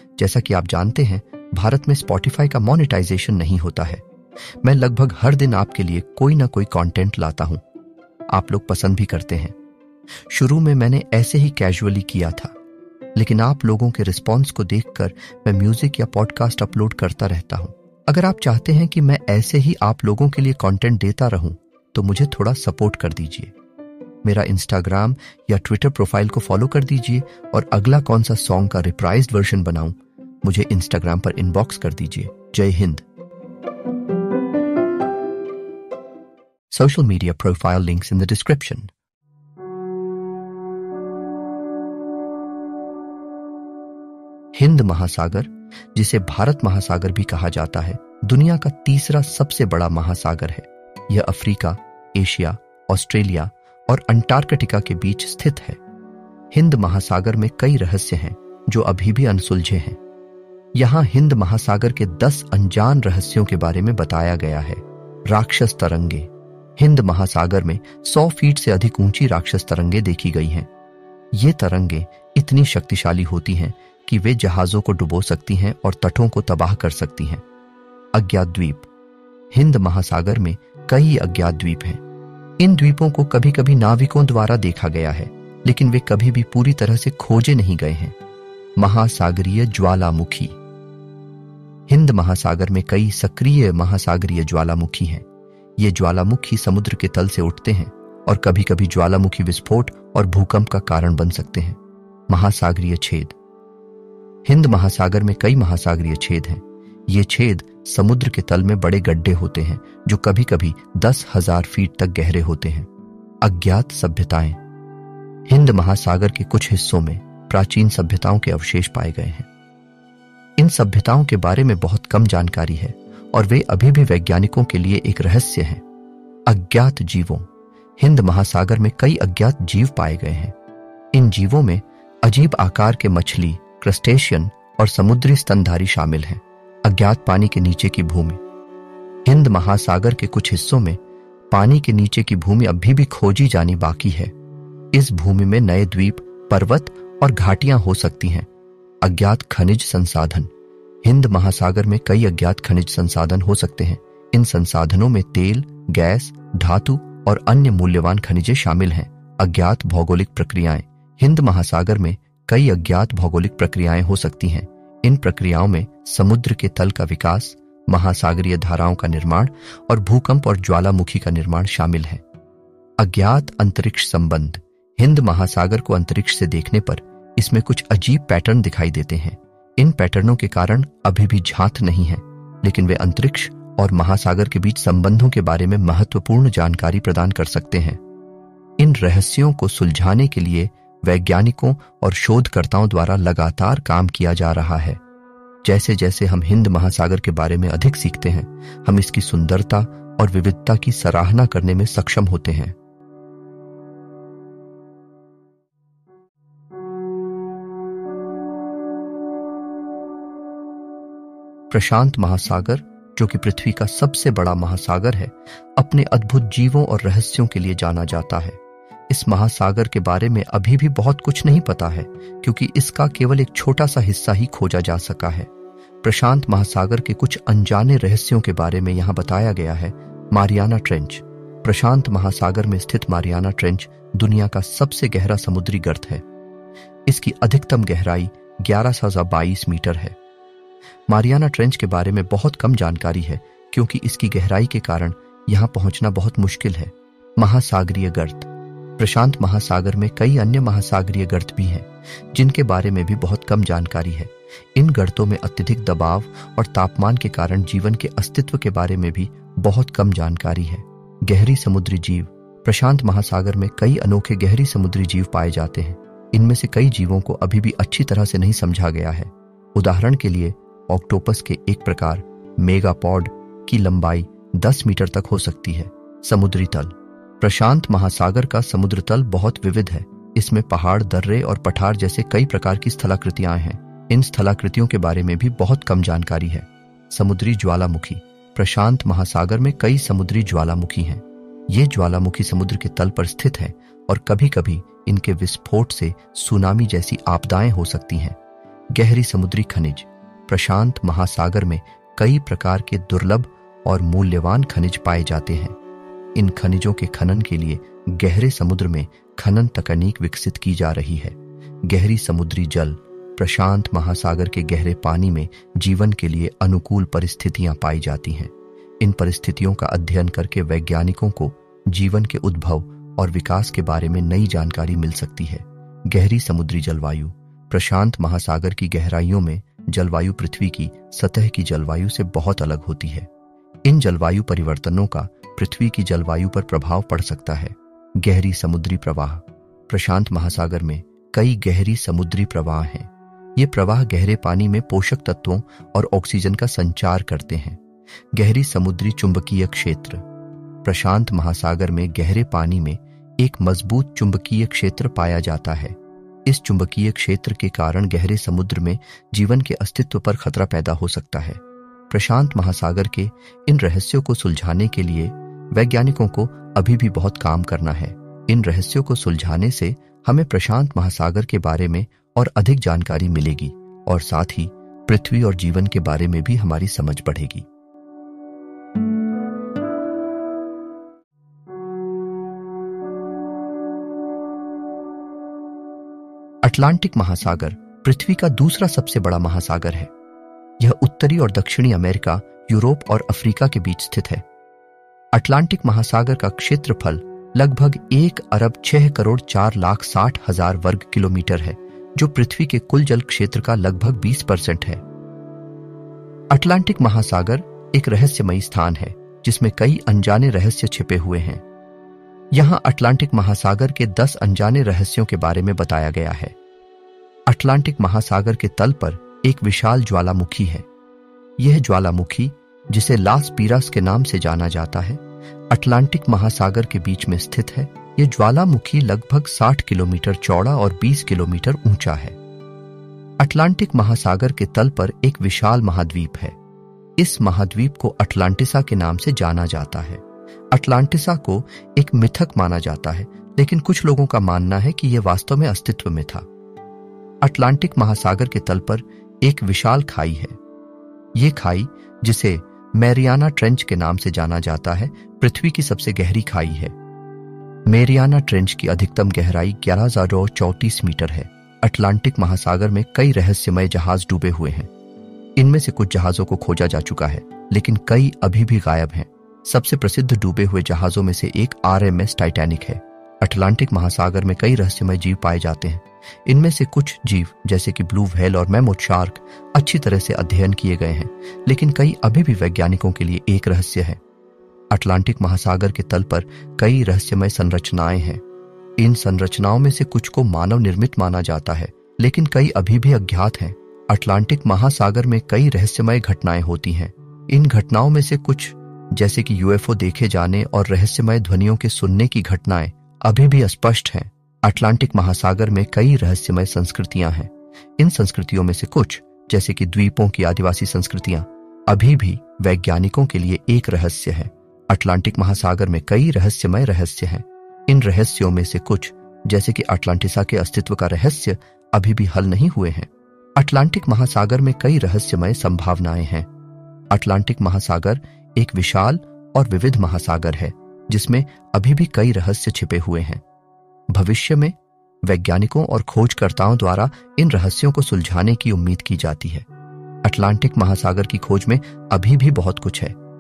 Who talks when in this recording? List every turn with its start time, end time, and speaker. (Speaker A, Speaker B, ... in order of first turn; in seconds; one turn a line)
Speaker A: 0.2-4.0
Speaker A: 4.6-7.6
Speaker A: 8.3-9.6
Speaker A: 10.3-12.5
Speaker A: 13.1-23.5
Speaker A: 24.2-33.0
Speaker A: 36.7-38.9
Speaker A: 44.5-55.8
Speaker A: 56.5-60.0
Speaker A: 60.7-70.7
Speaker A: 71.3-77.4
Speaker A: 78.1-78.9
Speaker A: 79.5-82.0
Speaker A: 82.6-88.2
Speaker A: 88.8-90.6
Speaker A: 91.9-95.2
Speaker A: 95.8-103.4
Speaker A: 104.5-112.9
Speaker A: 113.4-114.6
Speaker A: 115.5-119.5
Speaker A: 120.6-125.8
Speaker A: 126.5-130.6
Speaker A: 131.1-138.4
Speaker A: 139.2-141.0
Speaker A: 141.5-144.3
Speaker A: 144.9-148.5
Speaker A: 149.0-150.5
Speaker A: 151.0-172.2
Speaker A: 173.0-188.0
Speaker A: 188.8-195.0
Speaker A: 195.6-202.8
Speaker A: 211.7-225.5
Speaker A: 226.0-236.2
Speaker A: 237.1-240.2
Speaker A: 241.1-298.4
Speaker A: 298.9-305.8
Speaker A: 306.4-333.3
Speaker A: 333.9-347.8
Speaker A: 348.3-350.2
Speaker A: 350.8-377.7
Speaker A: 386.6-390.1
Speaker A: 390.8-394.4
Speaker A: 395.3-405.0
Speaker A: 406.5-411.6
Speaker A: 412.5-416.6
Speaker A: 417.5-420.9
Speaker A: 421.6-432.4
Speaker A: 433.4-436.6
Speaker A: 437.2-446.5
Speaker A: 447.4-450.6
Speaker A: 451.4-456.9
Speaker A: 457.9-464.9
Speaker A: 465.6-484.2
Speaker A: 484.9-488.4
Speaker A: 489.0-526.5
Speaker A: 527.1-533.4
Speaker A: 534.1-539.7
Speaker A: 540.2-543.2